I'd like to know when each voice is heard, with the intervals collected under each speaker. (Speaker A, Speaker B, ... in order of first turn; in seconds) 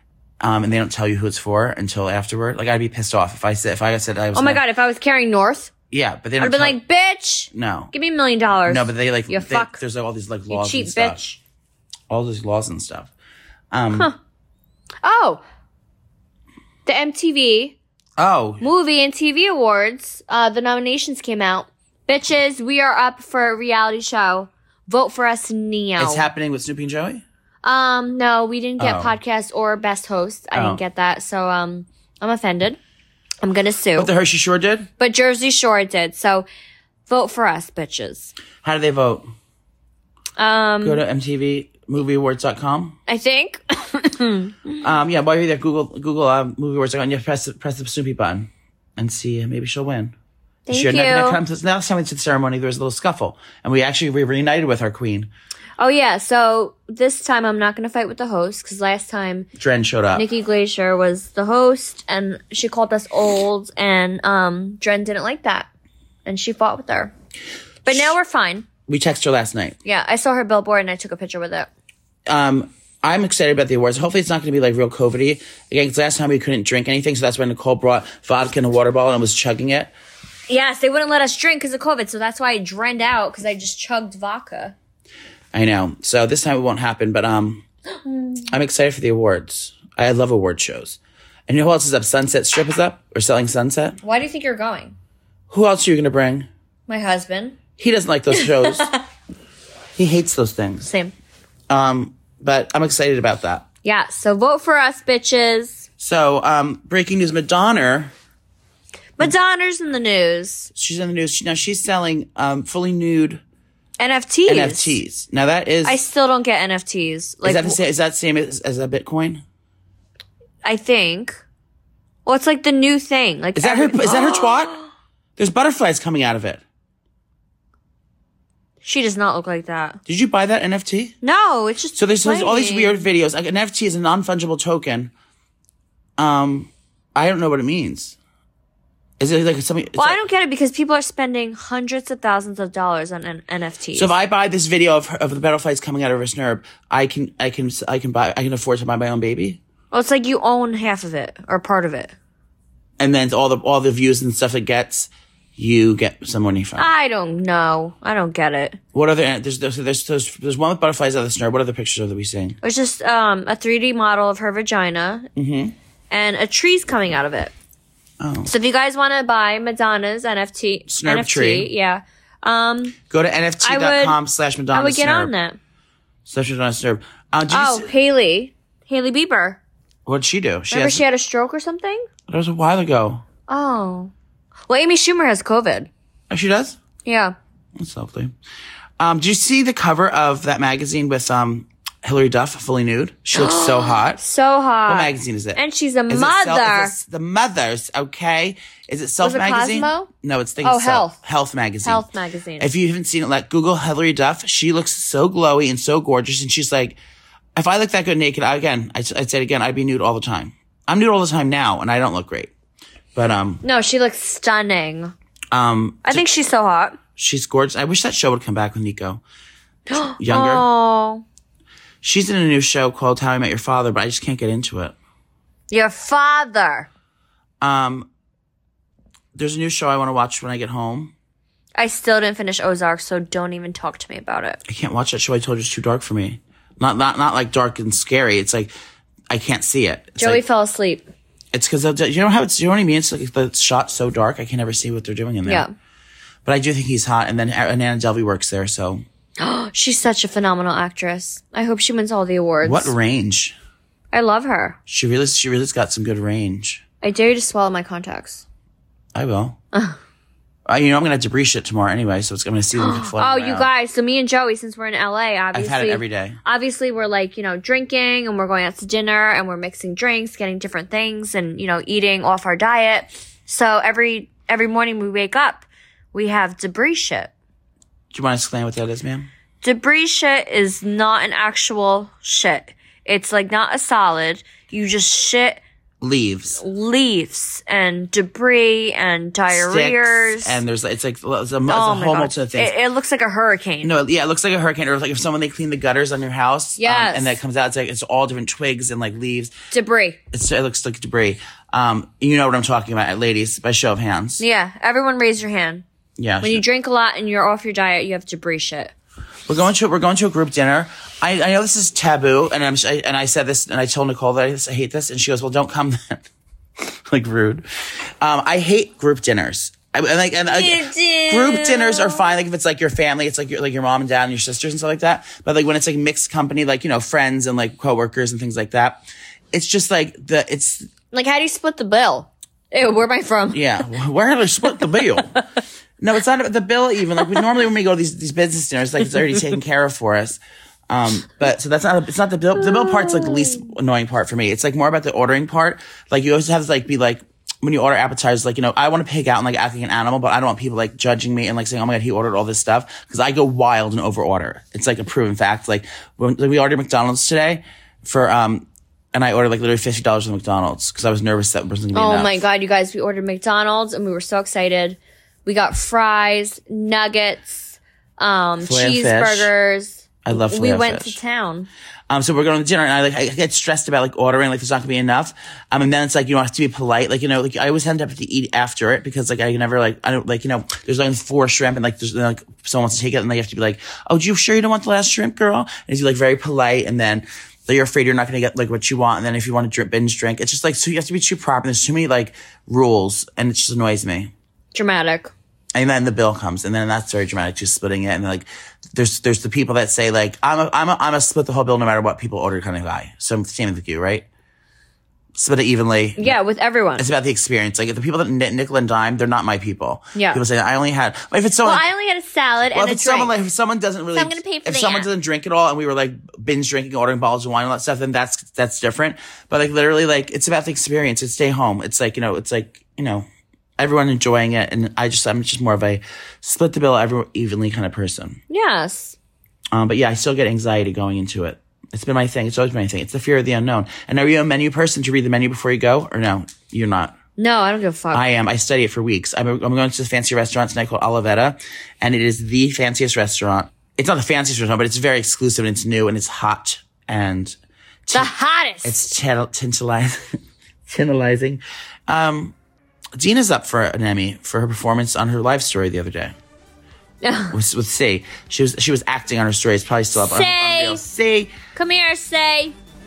Speaker A: 0.4-4.6, 5.9-6.8, 7.5-7.9, 8.7-11.2, 12.1-13.1, 13.7-14.1, 18.2-18.6, 26.0-27.2, 28.8-29.1, 30.5-30.8, 34.0-34.9, 38.6-39.3, 40.8-43.0, 44.8-50.1, 50.7-55.3, 59.6-60.3, 68.9-69.8, 72.3-79.9, 85.5-87.7, 88.5-94.0, 95.5-96.5, 97.8-98.9, 100.0-100.9, 101.7-103.7, 106.0-108.1, 110.8-113.4, 114.5-116.0, 117.4-119.4, 123.5-124.8, 125.4-126.6, 130.1-131.2, 132.0-135.1, 136.2-138.2, 139.2-140.2, 143.9-149.6, 153.0-156.9, 158.9-162.6, 165.3-165.8, 168.2-168.5, 170.9-171.7, 173.1-175.3, 176.2-177.9, 180.1-181.1, 182.3-183.2, 186.3-186.8, 187.8-188.3, 189.0-194.2, 194.9-202.1, 202.6-207.0, 207.6-212.5, 213.2-213.6, 215.5-216.3, 217.2-219.2, 220.2-220.7, 222.0-225.0, 227.6-228.1, 229.3-231.1, 234.7-238.7, 239.3-240.4, 241.5-245.7, 246.4-249.0, 252.6-253.6, 254.9-256.8, 259.1-259.6, 260.7-263.7, 265.5-266.4, 278.1-279.3, 286.0-286.6, 289.5-292.8, 293.8-299.5, 300.3-304.4, 306.2-306.6, 309.5-316.2, 316.8-317.6, 318.2-329.0, 329.5-330.9, 333.5-335.3, 336.0-362.4, 368.6-369.5, 370.2-371.2, 372.1-394.3, 395.7-404.3, 405.4-406.4, 407.0-411.9, 412.7-423.3, 423.8-428.4, 429.7-437.1, 438.1-448.3, 448.8-452.6, 453.2-456.3, 457.5-461.5
Speaker B: 4.3-5.7, 6.4-9.8, 10.5-11.4, 15.0-15.4, 16.9-17.8, 18.6-26.3, 27.6-32.8, 33.4-34.1, 35.0-36.5, 37.1-38.3, 40.4-41.0, 43.1-44.8, 50.7-51.4, 55.8-59.5, 60.1-65.7, 66.3-67.1, 67.8-68.7, 69.8-71.7, 80.5-84.8, 88.1-88.5, 94.0-95.0, 96.9-97.6, 98.3-99.0, 100.9-101.1, 103.8-105.9, 109.2-110.7, 114.0-115.0, 115.8-117.8, 120.6-121.4, 122.3-124.8, 128.8-130.0, 131.2-133.1, 140.0-144.1, 149.9-152.1, 156.8-158.8, 162.6-165.3, 166.1-167.5, 168.5-173.0, 173.6-174.2, 174.7-175.6, 177.5-179.6, 180.7-182.1, 183.5-184.1, 184.7-185.9, 187.1-187.3, 193.3-196.9, 199.2-200.1, 200.6-201.2, 201.8-202.7, 213.6-215.1, 216.1-217.0, 219.9-221.2, 225.7-226.9, 231.8-234.6, 240.2-241.1, 245.5-245.7, 249.4-252.9, 254.1-254.8, 257.0-258.4, 259.7-260.0, 262.8-277.3, 279.6-285.6, 286.6-290.6, 291.7-293.9, 296.8-297.4, 299.7-300.2, 304.4-305.9, 306.4-308.9, 320.5-322.3, 331.1-333.7, 361.9-371.7, 394.7-395.3, 406.2-407.1, 410.1-410.4, 411.6-413.3, 414.1-415.1, 428.5-429.2, 437.4-438.2, 448.1-448.9, 457.2-457.6, 460.2-461.0, 461.7-462.8